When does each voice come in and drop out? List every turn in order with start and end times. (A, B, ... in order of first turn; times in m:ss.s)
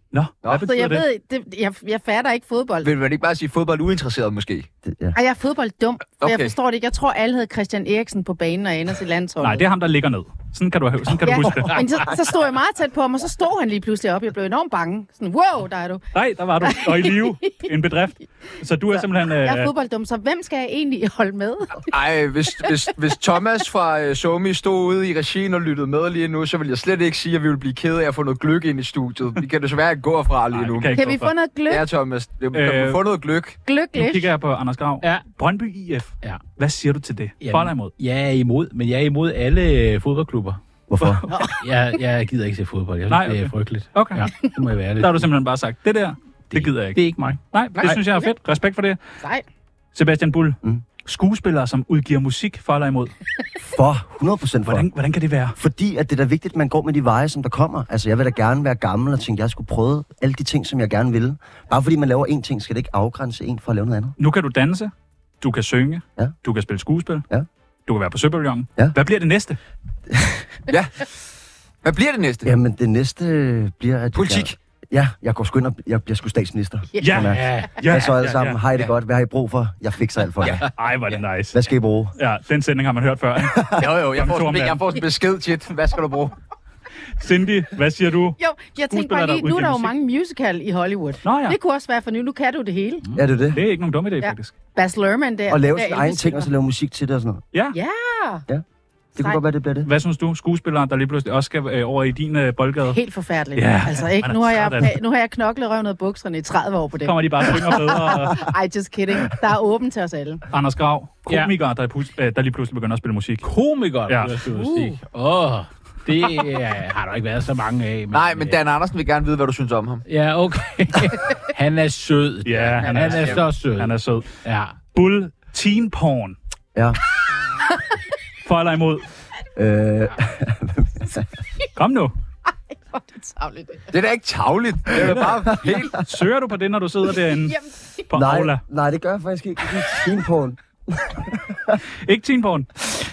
0:00.1-0:01.0 A
0:00.5-0:02.9 B
0:02.8-0:04.7 C
0:04.8-0:05.2 D
0:05.1-0:09.6 B
0:06.2-0:06.5 C
0:09.4-0:11.8 A
0:11.2-0:16.0 B
0:16.1-0:19.7 A
0:16.6-0:17.5 B
0:18.9-0:21.9 B
0:21.8-0:30.9 C
0:30.5-0:31.3 A
0:30.9-0:31.8 B
0:31.7-0:33.6 C
0:32.5-0:33.0 A
0:33.6-0:34.3 B
0:33.9-0:37.9 A
0:37.4-0:40.6 E
0:40.9-0:41.2 D
0:41.0-0:41.3 A
0:41.3-0:41.6 B
0:41.6-0:45.3 E
0:43.1-0:44.3 A
0:45.0-0:47.0 A
0:46.5-0:48.0 E
0:47.5-0:49.0 A
0:49.9-0:53.1 A
0:53.6-0:54.9 D
0:54.6-0:55.6 A
0:55.5-1:04.2 D
1:04.2-1:07.2 A
1:07.9-1:09.6 A
1:10.1-1:10.4 D
1:10.7-1:11.1 C
1:11.8-1:12.5 C
1:12.4-1:20.7 D
1:14.1-1:14.5 C
1:17.0-1:17.2 B
1:17.0-1:18.6 A
1:17.3-1:17.8 E
1:20.4-1:21.2 C
1:20.8-1:24.9 A
1:21.5-1:22.1 D
1:23.8-1:26.3 C
1:27.2-1:28.4 A
1:28.4-1:33.0 B
1:28.9-1:29.9 A
1:31.2-1:31.6 A
1:33.1-1:33.6 D
1:33.5-1:34.5 A
1:34.2-1:36.5 B
1:35.5-1:37.4 D
1:37.7-1:38.4 B
1:39.1-1:39.9 D
1:39.8-1:43.0 A
1:42.9-1:50.4 B
1:43.5-1:44.9 A
1:47.0-1:48.5 A
1:50.5-1:53.5 A
1:51.3-1:51.5 E
1:53.4-1:58.6 E
1:54.1-1:54.4 A
1:54.6-1:54.9 B
1:58.1-2:00.0 C
2:00.0-2:04.8 E
2:02.4-2:04.3 A
2:02.8-2:03.4 C
2:04.9-2:06.4 A
2:08.4-2:09.1 A
2:09.5-2:11.2 D
2:11.8-2:12.1 A
2:12.7-2:13.9 B
2:13.9-2:16.0 C
2:15.0-2:15.3 A
2:15.9-2:18.6 A
2:17.4-2:17.7 B
2:18.1-2:21.8 D
2:22.0-2:22.9 A